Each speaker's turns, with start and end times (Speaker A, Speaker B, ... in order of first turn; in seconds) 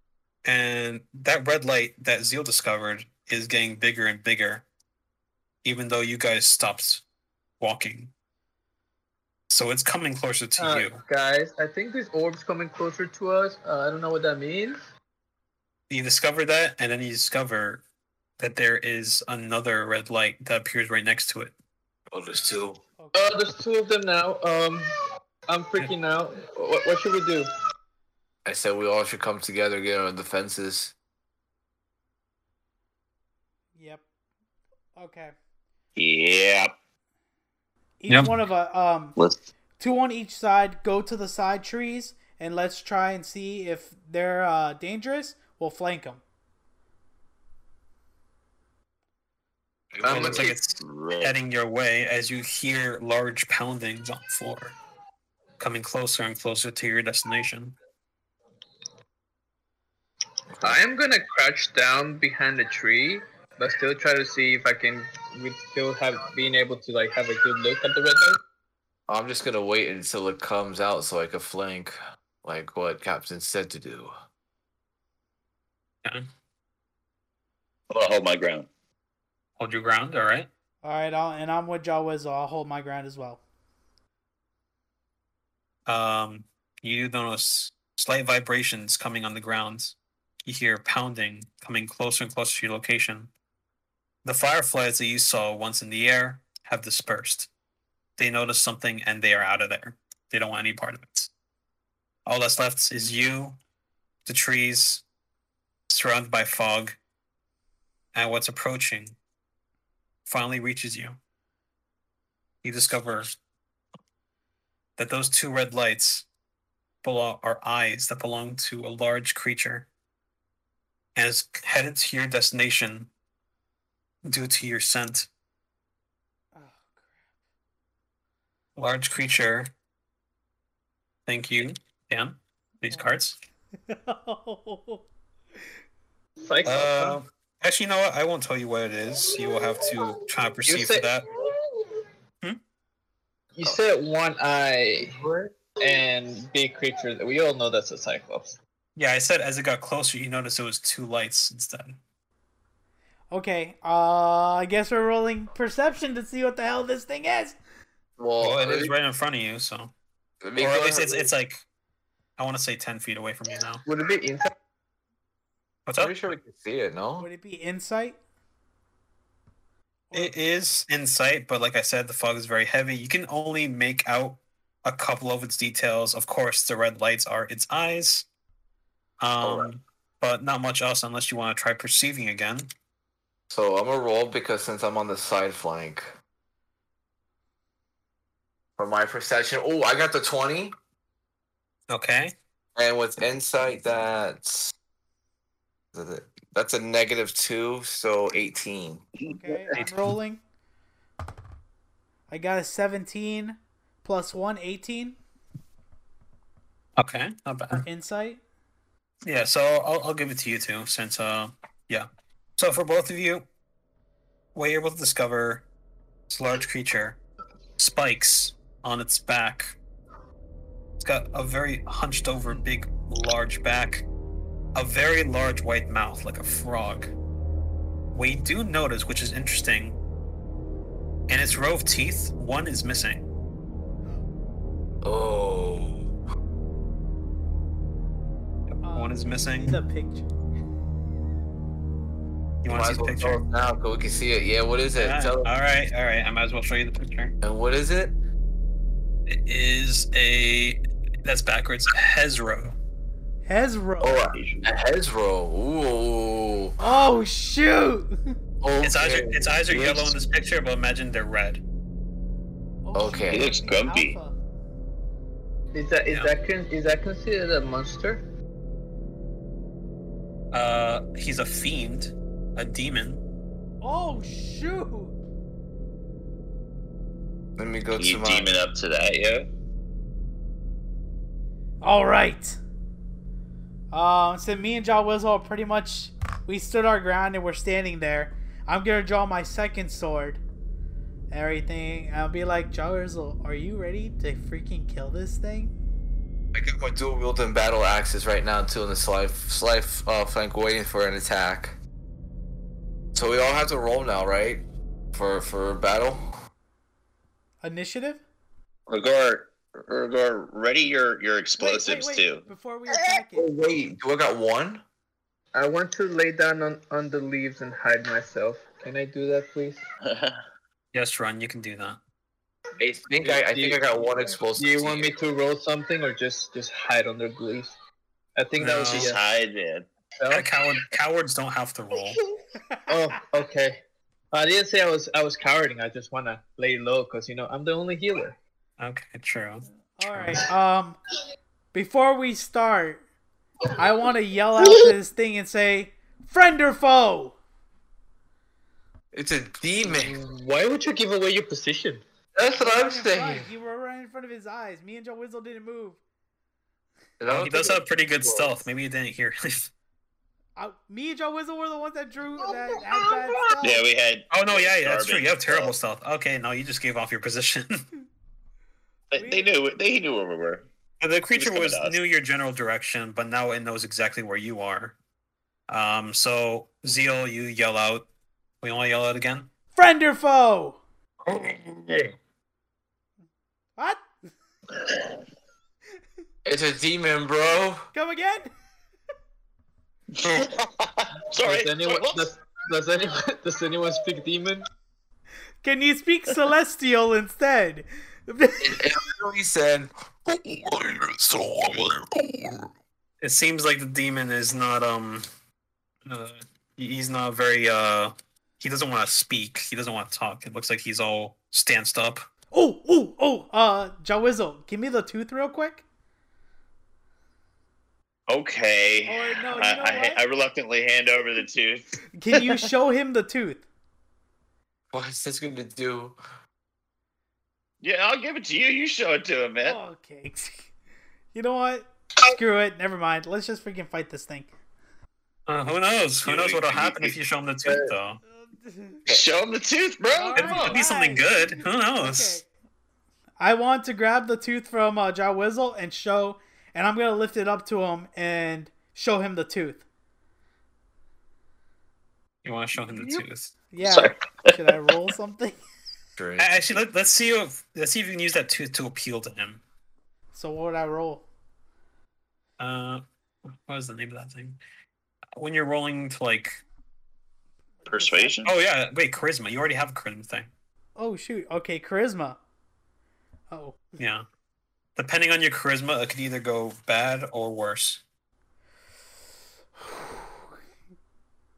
Speaker A: 0.4-4.7, 5.6-7.0, 7.6-8.1, 9.5-11.0, 15.9-17.8, 18.4-21.5, 38.1-38.4, 50.0-54.8, 55.6-57.8, 79.6-80.5, 85.9-93.3, 94.2-97.5, 98.2-101.3, 102.3-103.6, 104.3-105.0, 105.9-107.0, 108.1-109.2, 110.3-111.2, 112.6-113.3, 115.0-116.3, 117.0-119.9, 121.2-123.1, 124.3-125.3, 128.8-129.7, 131.3-133.4, 136.6-141.3, 149.0-152.0, 158.4-159.9, 160.6-161.6, 162.4-163.8, 165.9-166.2, 170.1-178.3, 179.2-182.7, 191.9-192.3, 199.7-200.1, 207.0-207.9, 209.2-213.4, 214.6-215.7, 216.3-217.2, 217.8-219.8, 221.0-224.1, 224.8-227.1, 228.1-230.0, 231.3-233.3, 238.7-239.8, 242.6-243.4, 245.0-247.3, 249.3-252.8, 258.8-261.6, 270.5-273.2, 320.9-322.0, 328.6-329.1, 330.3-332.2, 338.8-340.4, 357.3-359.7, 364.3-367.9, 371.0-374.9, 375.7-378.1, 378.6-379.5, 403.2-405.2, 406.1-412.2, 435.5-438.2, 440.4-442.4, 452.4-453.5, 456.4-459.6, 462.6-463.0, 463.7-464.6, 465.4-466.6, 468.4-470.5, 474.0-474.2, 475.0-478.0
Speaker B: 10.6-14.8, 23.1-24.8, 25.5-27.5, 50.0-50.5, 60.6-68.4, 136.4-137.2, 140.7-141.5, 143.6-145.2, 145.8-148.6, 163.8-164.5, 265.7-268.2, 315.5-319.8, 323.2-323.8, 324.6-327.7, 328.4-329.2, 330.2-330.6, 332.9-333.8, 334.3-338.4, 349.8-352.0, 391.4-394.7
Speaker C: 22.1-22.8, 28.4-30.9, 49.9-50.5, 60.5-60.8, 69.1-74.1, 145.0-145.5, 158.2-158.9, 160.4-161.3, 166.0-167.3, 183.5-186.1, 188.8-190.8, 192.8-194.7, 195.9-199.1, 235.0-236.1, 242.7-245.5, 247.4-248.2, 254.0-256.8, 258.6-260.2, 262.9-263.6, 277.6-278.5, 296.5-301.8, 303.1-306.2, 313.4-314.8, 322.8-325.1, 349.1-350.2, 352.4-353.5, 357.2-358.5, 386.4-387.9, 398.6-402.7, 424.9-426.2, 456.2-456.8
Speaker D: 23.0-23.4, 33.8-34.0, 35.0-35.4, 38.0-39.2, 39.8-46.2, 80.8-83.4, 126.5-127.3, 133.9-135.1, 153.3-157.6, 167.2-168.2, 170.1-170.4, 199.3-200.4, 202.3-205.2, 207.7-208.4, 238.8-240.3, 253.5-254.3, 256.8-258.2, 262.8-264.4, 273.8-275.2, 281.8-282.6, 283.9-290.4, 291.3-295.7, 307.6-308.2, 311.6-313.5, 340.0-341.0, 341.7-343.0, 343.8-347.4, 352.5-356.0, 360.6-363.9, 369.1-369.5, 379.8-380.8, 387.9-388.5, 395.6-398.9, 412.5-415.8, 419.1-420.2, 422.1-423.6, 429.6-430.7, 431.3-434.5, 438.4-439.0, 440.1-442.5, 443.4-449.8, 453.7-455.6, 460.3-461.3, 467.9-468.4, 471.0-472.4, 473.5-473.8, 480.0-480.4
Speaker E: 36.0-36.7, 50.8-51.4, 77.9-78.7, 254.3-254.7, 263.3-264.2, 278.0-279.5, 308.9-312.4, 320.0-320.4, 328.9-329.9, 363.6-365.8, 369.1-370.7, 371.3-372.0, 381.3-382.1, 390.2-392.3, 418.3-422.6, 427.8-429.8, 436.2-437.2, 439.1-440.8, 453.8-454.8, 467.9-468.5